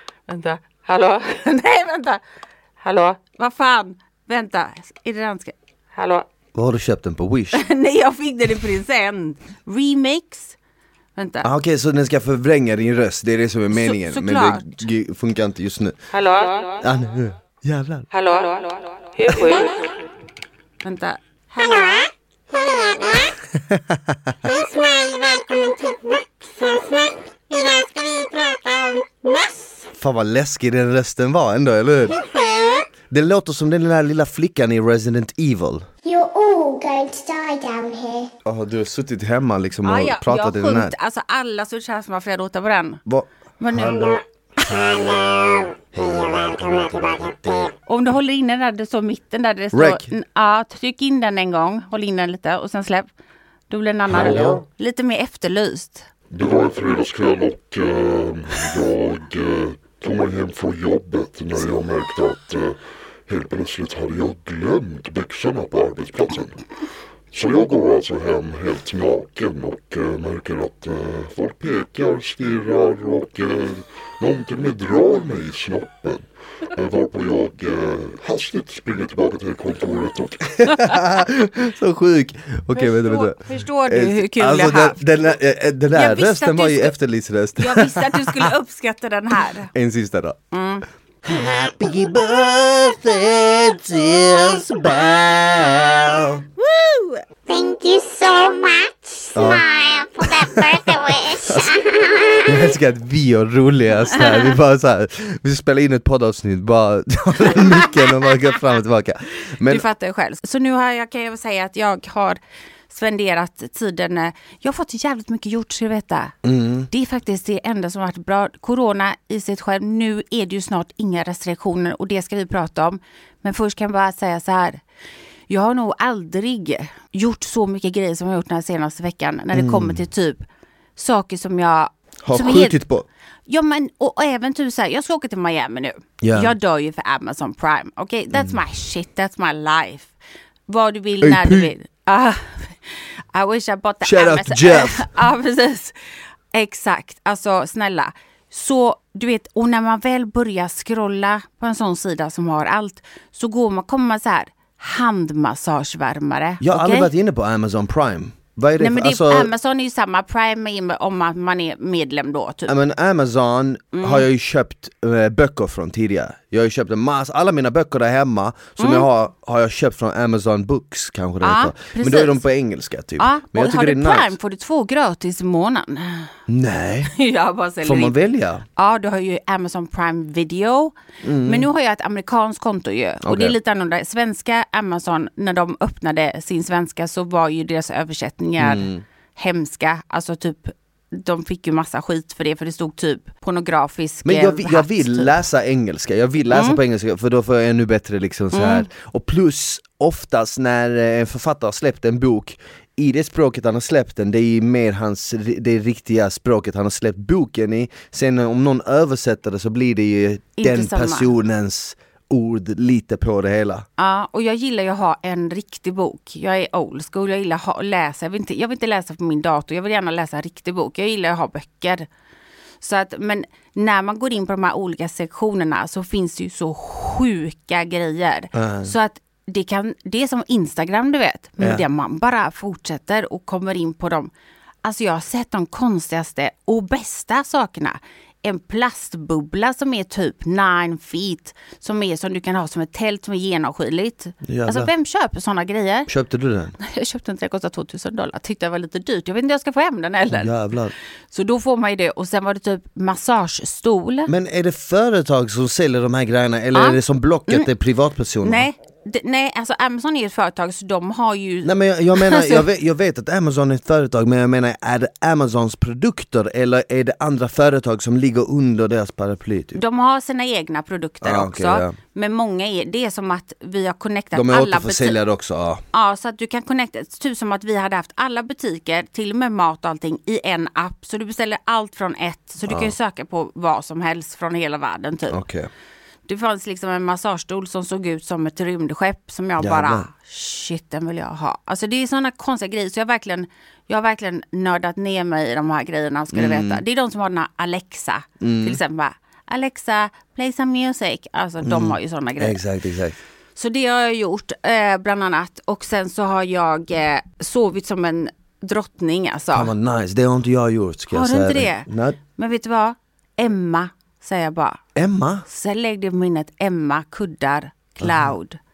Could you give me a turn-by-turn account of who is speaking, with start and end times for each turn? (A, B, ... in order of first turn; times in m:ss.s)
0:00.3-0:02.2 A
0:02.8-0:06.3 A
0:06.6-0:07.6 B
0:07.5-0:10.6 A
0:11.2-0:11.5 A
0:11.4-0:16.0 B
0:13.7-0:14.8 A
0:16.1-0:16.8 A
0:16.8-0:18.1 B
0:18.1-0:20.0 A
0:20.8-0:22.1 A
0:22.5-0:23.3 C
0:23.5-0:24.5 B
0:24.6-0:29.8 C
0:30.0-0:32.3 B
0:32.3-0:32.9 C
0:33.1-0:35.9 B
0:36.0-0:38.3 C
0:38.4-0:40.9 B
0:39.8-0:43.0 A
0:43.1-0:44.2 B
0:43.6-0:44.8 A
0:44.9-0:45.2 D
0:45.9-0:47.6 D
0:47.9-0:53.1 A
0:49.7-0:50.1 B
0:53.7-0:56.1 A
0:54.1-0:54.6 B
0:56.3-1:06.6 D
1:07.3-1:20.5 D
1:20.6-1:28.5 B
1:20.7-1:21.2 A
1:22.7-1:25.0 A
1:25.9-1:26.9 A
1:27.6-1:29.7 A
1:29.7-1:30.4 B
1:30.5-1:30.8 A
1:31.2-1:36.4 B
1:36.6-1:37.3 A
1:37.5-1:42.4 C
1:39.3-1:49.8 B
1:44.2-1:44.5 A
1:47.6-1:47.9 A
1:49.6-1:56.4 A
1:56.4-1:56.9 B
1:56.9-2:04.8 A
2:05.5-2:10.4 A
2:09.5-2:10.0 B
2:11.0-2:12.8 A
2:12.2-2:13.1 B
2:13.5-2:20.1 A
2:16.2-2:16.5 B
2:20.7-2:37.1 A
2:21.2-2:21.7 B
2:24.0-2:25.1 B
2:36.6-2:39.5 B
2:38.8-2:42.8 A
2:42.7-2:54.4 B
2:43.9-2:44.3 A
2:48.8-2:49.1 A
2:51.4-2:52.4 A
2:53.2-2:56.3 A
2:56.5-2:57.1 B
2:57.1-2:58.2 A
2:57.8-2:58.6 B
2:58.8-3:15.3 A
3:01.2-3:01.7 B
3:03.2-3:03.6 B
3:08.6-3:09.0 B
3:14.2-3:33.9 B
3:16.5-3:16.8 A
3:18.5-3:18.9 A
3:30.6-3:31.3 A
3:34.0-3:42.1 A
3:42.8-3:54.3 A
3:48.5-3:48.9 B
3:51.6-3:51.8 B
3:54.8-4:06.1 A
4:04.4-4:04.9 B
4:06.1-4:06.8 B
4:06.8-4:10.5 A
4:10.3-4:11.0 B
4:11.3-4:14.3 A
4:14.3-4:18.7 B
4:16.7-4:17.7 A
4:18.4-4:22.7 A
4:21.6-4:29.8 B
4:29.8-4:35.2 A
4:31.2-4:32.0 B
4:34.4-4:35.8 B
4:35.9-4:45.4 A
4:42.7-4:42.9 B
4:45.3-4:45.7 B
4:46.3-5:02.6 A
4:49.6-4:50.1 B
4:56.3-4:56.8 B
4:58.4-4:58.8 B
5:01.6-5:03.2 B
5:03.6-5:09.7 A
5:09.5-5:12.2 B
5:11.1-5:14.8 A
5:15.0-5:15.4 B
5:15.5-5:18.6 A
5:18.0-5:18.3 B